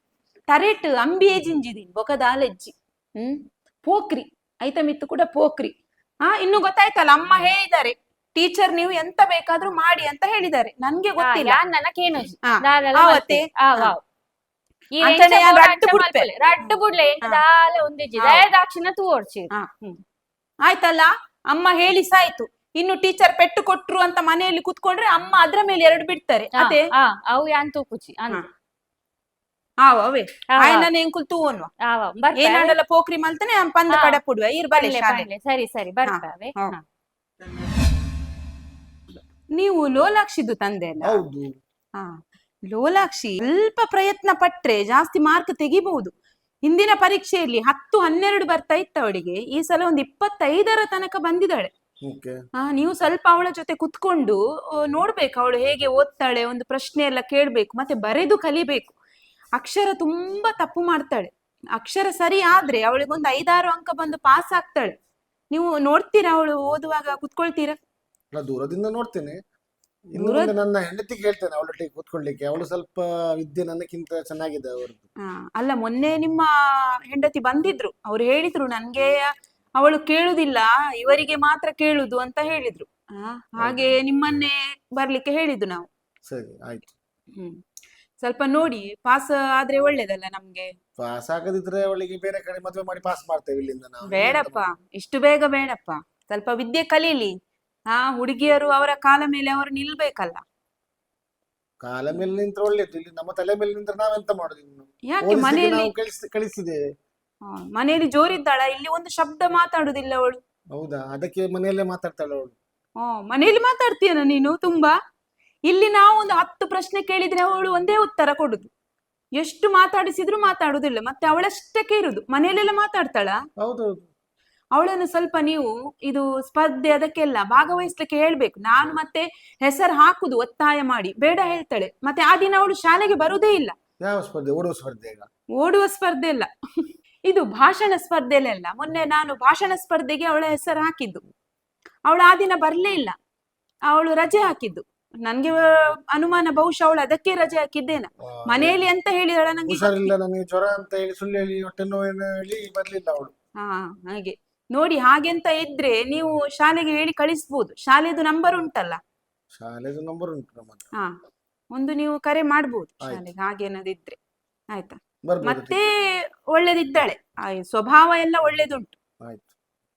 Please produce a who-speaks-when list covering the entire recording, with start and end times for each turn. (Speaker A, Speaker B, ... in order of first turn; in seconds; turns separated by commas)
Speaker A: 0.5-5.7, Speaker A: 6.2-11.6, Speaker B: 11.2-14.0, Speaker A: 12.5-13.9, Speaker B: 15.0-19.5, Speaker A: 15.0-17.4, Speaker A: 18.2-18.4, Speaker A: 19.6-20.0, Speaker A: 20.7-26.8, Speaker B: 26.6-28.4, Speaker A: 29.8-31.7, Speaker B: 30.5-30.9, Speaker B: 31.9-32.8, Speaker A: 32.4-35.3, Speaker B: 33.9-34.2, Speaker B: 34.7-36.8, Speaker A: 36.0-36.8, Speaker A: 39.5-41.2, Speaker C: 41.0-41.5, Speaker A: 42.7-46.1, Speaker A: 46.7-51.7, Speaker C: 52.0-52.4, Speaker A: 52.6-58.9, Speaker A: 59.6-64.9, Speaker A: 65.5-67.8, Speaker C: 68.3-69.4, Speaker C: 70.1-75.0, Speaker A: 70.2-70.5, Speaker A: 75.2-76.5, Speaker A: 77.1-85.9, Speaker C: 83.6-84.0, Speaker C: 86.3-86.9, Speaker A: 88.2-90.7, Speaker C: 91.0-94.6, Speaker A: 94.1-97.3, Speaker A: 97.9-100.4, Speaker C: 101.8-106.8, Speaker A: 105.1-105.9, Speaker A: 107.5-110.4, Speaker C: 110.8-112.6, Speaker A: 113.0-115.0, Speaker A: 115.7-118.7, Speaker A: 119.4-123.4, Speaker C: 123.6-124.1, Speaker A: 124.8-133.7, Speaker C: 134.0-135.3, Speaker A: 135.6-136.5, Speaker A: 137.3-141.2, Speaker A: 142.1-143.1, Speaker A: 143.9-150.1, Speaker C: 148.5-148.8, Speaker C: 149.7-153.3, Speaker A: 153.6-159.0, Speaker C: 159.6-160.8, Speaker A: 161.7-164.2, Speaker A: 164.7-165.9, Speaker C: 165.2-165.8, Speaker A: 166.5-168.9, Speaker C: 169.2-169.5